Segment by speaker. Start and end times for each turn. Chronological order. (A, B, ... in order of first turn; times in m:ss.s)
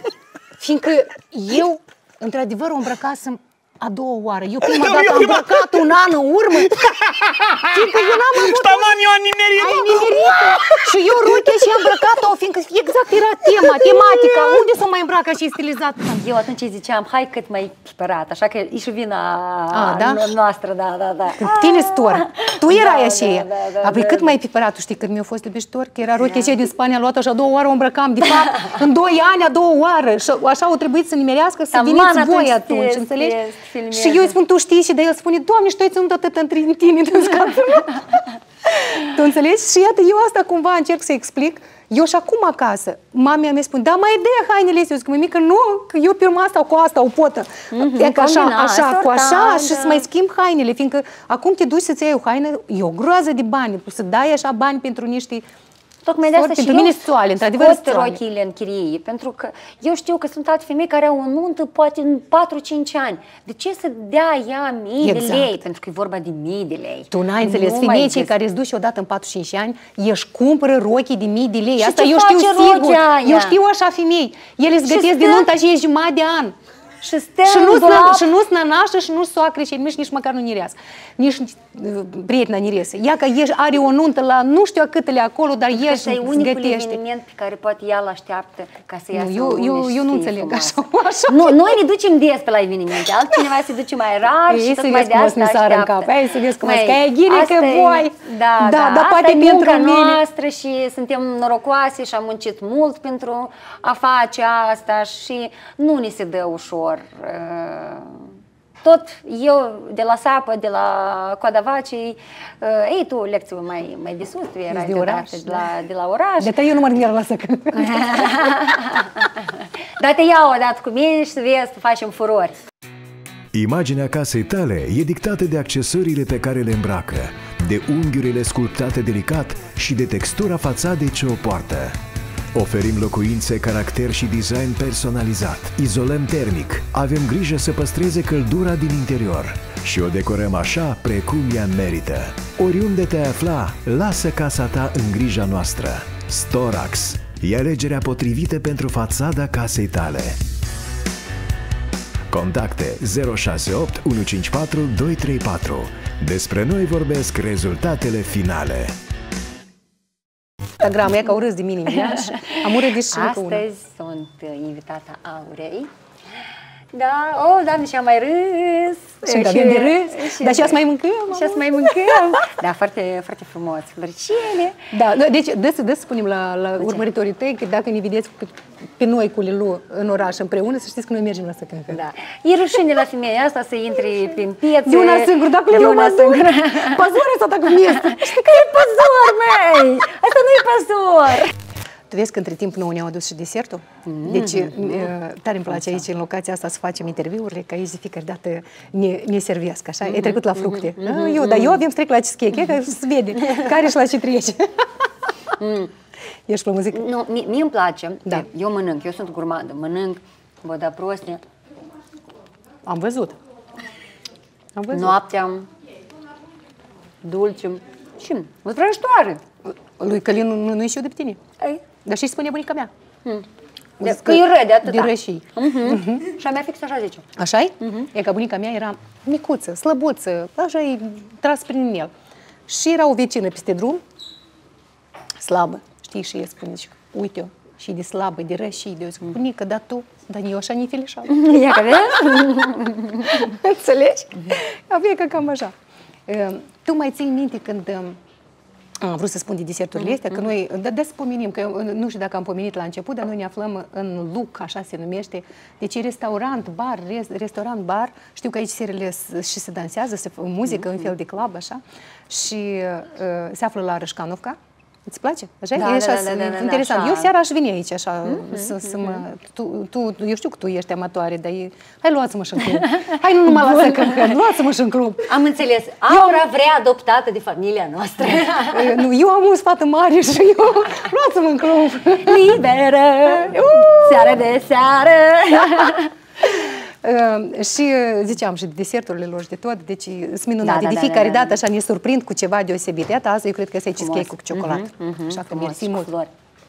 0:00.6-0:16.2 A
0:16.1-0:24.4 B
0:19.7-0:20.3 A
0:21.4-0:33.4 A
0:26.2-0:26.5 B
0:31.7-0:34.3 B
0:33.9-0:55.4 A
0:47.7-0:50.0 B
0:56.0-1:08.3 B
0:56.2-0:58.2 A
1:05.0-1:05.6 A
1:07.1-1:16.5 A
1:11.8-1:13.6 B
1:14.8-1:15.5 B
1:17.0-1:18.3 B
1:17.4-1:27.0 A
1:25.7-1:48.3 B
1:29.1-1:31.8 A
1:34.5-1:40.2 A
1:48.8-1:56.6 B
1:54.7-1:55.7 A
1:56.4-1:58.5 A
1:57.7-2:02.6 B
2:03.5-2:12.0 C
2:12.5-2:30.4 C
2:32.3-2:38.9 C
2:40.8-2:43.6 A
2:42.0-2:45.9 B
2:46.9-2:54.8 B
2:49.2-2:52.4 A
2:54.9-3:02.0 A
2:56.8-2:57.0 B
3:01.9-3:07.0 B
3:04.8-3:09.3 A
3:07.9-3:11.5 B
3:12.1-3:24.8 A
3:14.0-3:15.1 B
3:20.0-3:21.8 B
3:25.6-3:25.9 B
3:26.5-3:27.1 A
3:26.9-3:31.4 B
3:32.8-3:33.4 A
3:34.7-3:35.2 A
3:34.9-3:35.7 B
3:37.2-3:39.4 B
3:40.0-3:41.4 A
3:42.0-3:42.9 A
3:44.0-3:46.2 A
3:44.0-3:47.3 B
3:47.4-3:52.1 A
3:47.8-3:48.1 B
3:52.7-3:54.0 A
3:55.4-4:02.7 A
4:01.3-4:03.5 B
4:03.2-4:05.7 A
4:06.3-4:08.2 A
4:09.0-4:35.3 A
4:20.7-4:21.1 B
4:25.7-4:27.3 B
4:28.2-4:29.2 B
4:33.0-4:34.3 B
4:35.3-4:39.0 B
4:36.1-4:36.4 A
4:38.7-4:42.5 A
4:42.2-4:46.1 B
4:43.2-4:44.4 A
4:45.6-4:56.1 A
4:50.6-4:51.6 B
4:54.0-4:56.3 B